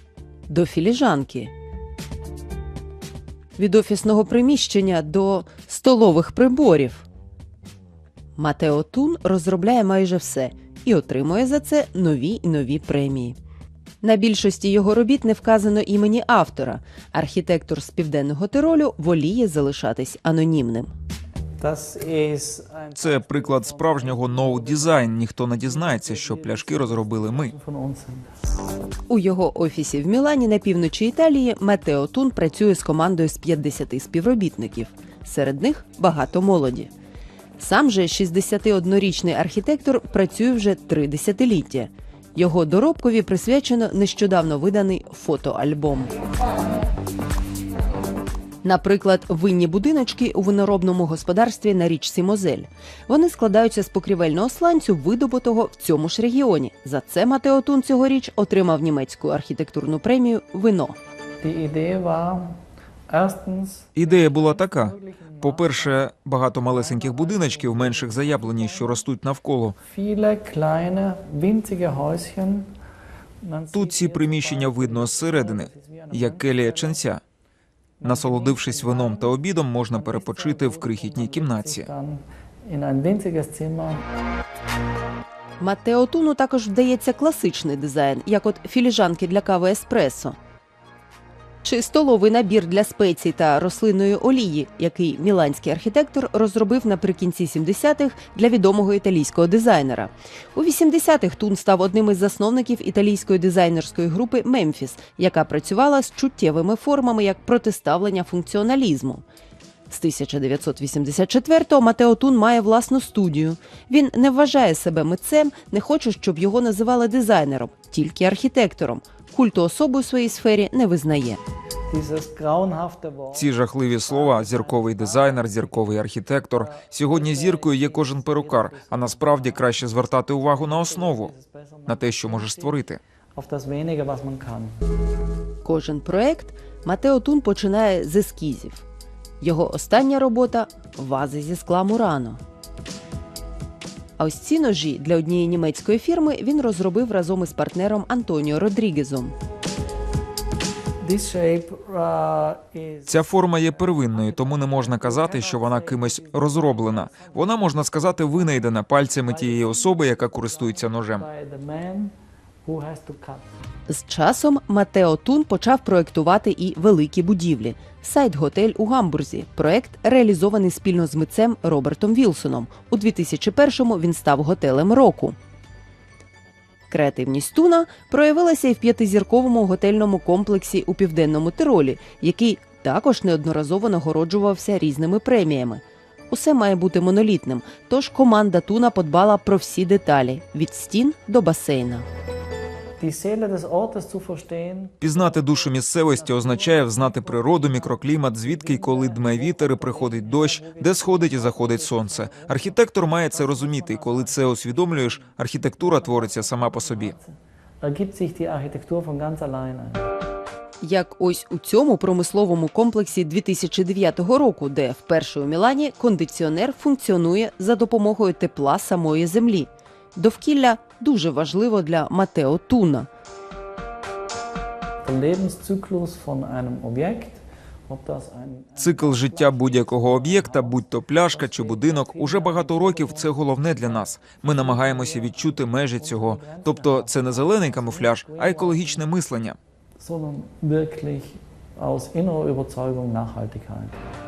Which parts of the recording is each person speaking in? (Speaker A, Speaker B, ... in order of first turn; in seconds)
Speaker A: 0.5-1.5, 3.6-7.0, 8.3-13.3, 14.0-20.9, 29.1-36.9, 37.6-46.1, 48.6-61.0, 85.6-90.4, 91.6-109.2, 109.9-121.4, 135.6-138.8, 139.4-142.4, 144.2-149.3, 163.9-175.3, 176.9-192.0, 210.8-223.1
Speaker B: 21.6-28.3, 61.4-62.5, 63.1-69.0, 69.8-72.7, 73.4-77.1, 78.0-84.0, 121.9-125.9, 126.5-132.8, 133.3-134.8, 151.0-162.1, 162.6-163.4, 193.0-210.0, 225.0-239.0, 240.0-244.0
Speaker C: 22.9-27.5, 64.0-69.8, 73.7-77.2, 78.0-81.9, 123.3-131.3, 131.9-133.0, 153.1-161.2, 195.0-207.1, 228.8-239.6